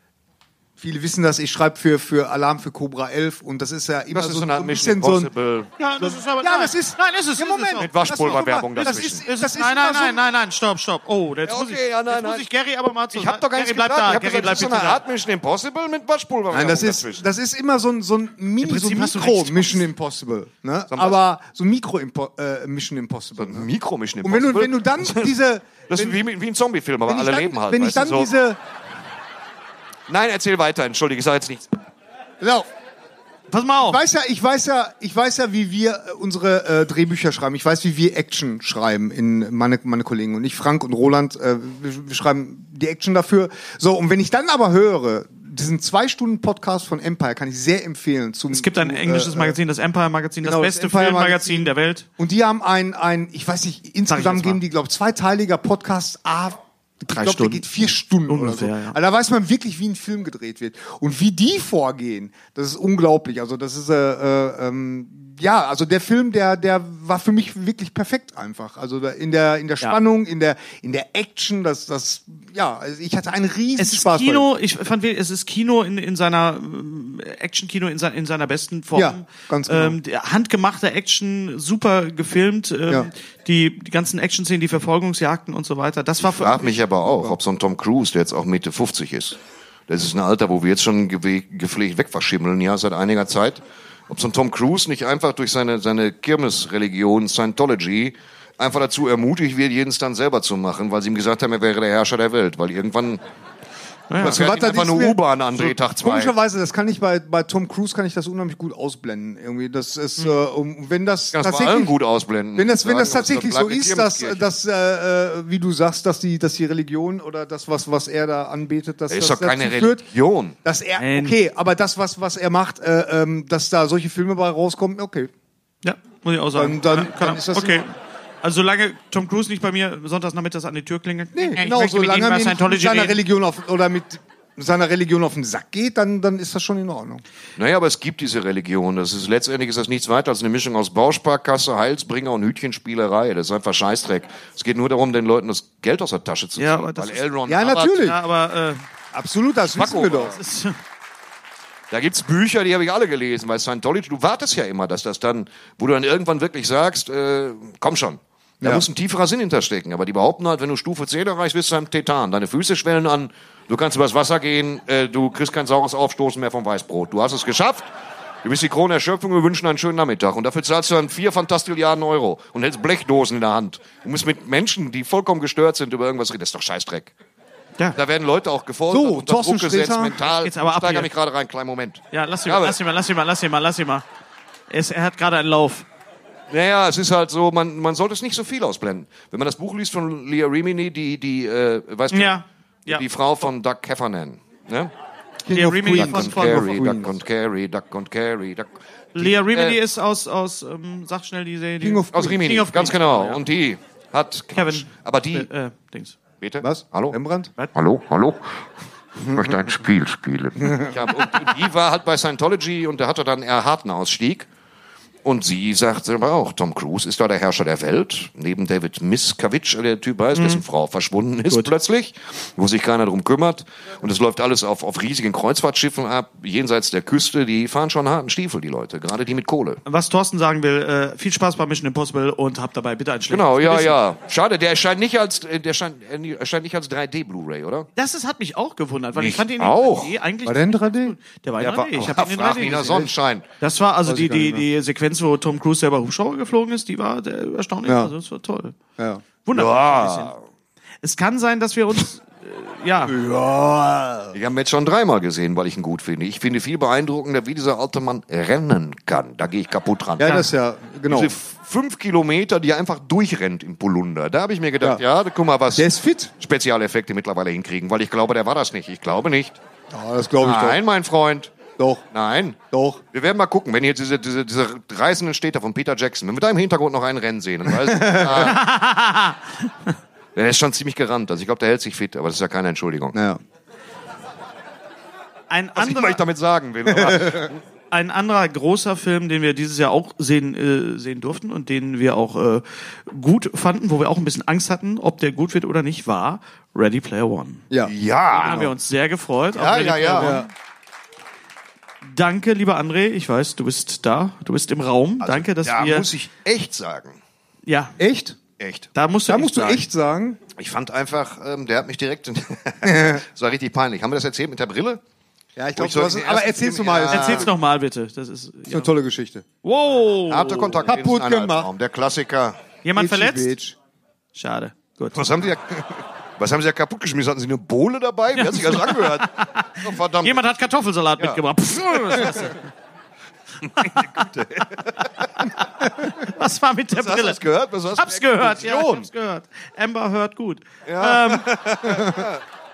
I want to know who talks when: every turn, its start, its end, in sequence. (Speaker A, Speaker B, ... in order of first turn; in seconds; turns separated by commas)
Speaker A: 0.8-5.3, Speaker B: 4.1-5.7, Speaker C: 5.8-7.9, Speaker A: 6.0-10.2, Speaker B: 7.8-9.2, Speaker C: 8.8-15.0, Speaker B: 11.5-12.4, Speaker B: 13.1-17.2, Speaker A: 16.5-23.7, Speaker C: 18.6-19.9, Speaker B: 20.9-21.2, Speaker B: 23.4-25.3, Speaker A: 24.2-26.2, Speaker B: 25.9-28.3, Speaker A: 27.1-28.6, Speaker B: 30.1-31.8, Speaker A: 32.4-32.7, Speaker C: 33.5-34.0, Speaker A: 33.8-49.6, Speaker C: 48.5-52.1, Speaker A: 50.4-74.5, Speaker C: 54.1-54.6, Speaker C: 57.1-57.7, Speaker C: 58.3-59.0, Speaker C: 73.8-86.8, Speaker A: 78.9-80.0, Speaker B: 86.3-103.2, Speaker A: 87.0-87.4, Speaker C: 104.1-104.4, Speaker B: 104.2-106.3, Speaker A: 104.2-112.0, Speaker B: 111.3-114.4, Speaker A: 112.5-120.0, Speaker B: 119.1-120.6, Speaker A: 120.6-125.3, Speaker C: 121.0-121.4, Speaker C: 125.8-133.2, Speaker A: 126.5-127.8, Speaker A: 131.3-137.2, Speaker B: 137.6-148.1, Speaker C: 146.6-148.8, Speaker A: 147.5-148.2, Speaker A: 149.1-150.4, Speaker B: 149.7-150.4, Speaker C: 150.3-150.8, Speaker B: 151.9-167.9, Speaker A: 158.6-158.9, Speaker B: 168.4-177.1, Speaker B: 177.9-182.8, Speaker A: 178.9-180.2, Speaker C: 180.3-181.1, Speaker C: 182.1-184.1, Speaker C: 184.7-185.9, Speaker B: 186.5-194.9, Speaker C: 192.1-193.0, Speaker A: 195.4-197.2, Speaker C: 195.5-196.8, Speaker B: 195.9-199.8, Speaker C: 199.2-203.4, Speaker A: 201.8-202.5, Speaker B: 202.1-205.5, Speaker C: 204.5-206.2, Speaker B: 206.4-207.2, Speaker A: 206.6-207.5, Speaker B: 207.7-208.7, Speaker B: 209.2-214.5, Speaker A: 210.6-210.9, Speaker B: 215.2-229.8, Speaker C: 220.3-220.6, Speaker C: 221.5-221.7, Speaker C: 229.8-234.0, Speaker B: 233.3-237.9, Speaker C: 238.0-248.8, Speaker B: 239.2-240.2, Speaker A: 240.4-241.2, Speaker B: 241.6-243.4, Speaker A: 244.1-244.7, Speaker A: 247.8-248.1, Speaker A: 249.0-249.2, Speaker C: 249.4-250.3, Speaker B: 249.5-250.4, Speaker C: 251.0-253.2, Speaker A: 253.1-254.4, Speaker B: 254.3-260.4, Speaker A: 260.2-261.3, Speaker B: 261.1-265.9, Speaker A: 265.7-266.3, Speaker B: 266.4-269.6, Speaker A: 269.9-270.8, Speaker B: 270.4-271.6, Speaker A: 271.8-272.1, Speaker B: 272.1-272.6, Speaker A: 272.7-273.0, Speaker B: 273.1-278.7, Speaker A: 277.8-278.5, Speaker C: 278.3-279.7, Speaker B: 280.4-283.2, Speaker A: 283.1-283.4, Speaker C: 285.5-286.2, Speaker B: 285.8-287.6, Speaker A: 286.9-287.5, Speaker C: 287.9-297.6, Speaker B: 297.9-298.7, Speaker C: 298.3-300.5, Speaker B: 299.5-300.4, Speaker A: 300.2-300.5, Speaker C: 302.0-306.1, Speaker B: 305.2-307.2, Speaker C: 307.7-308.0, Speaker A: 308.0-308.4, Speaker B: 308.6-308.9, Speaker C: 308.9-309.8, Speaker A: 309.3-310.4, Speaker B: 310.6-315.0, Speaker A: 312.8-313.2, Speaker A: 315.6-317.5, Speaker B: 315.8-317.5, Speaker C: 317.1-318.9, Speaker A: 318.7-319.4, Speaker C: 319.6-320.9, Speaker B: 320.3-322.6, Speaker A: 320.9-321.7, Speaker C: 322.8-323.6, Speaker A: 322.9-323.8, Speaker C: 324.3-325.2, Speaker B: 325.1-330.4, Speaker C: 328.4-332.6, Speaker B: 332.0-332.5, Speaker B: 333.7-335.5, Speaker C: 333.8-334.3, Speaker C: 335.4-337.4, Speaker B: 336.9-339.1, Speaker C: 337.9-341.5, Speaker B: 340.9-342.4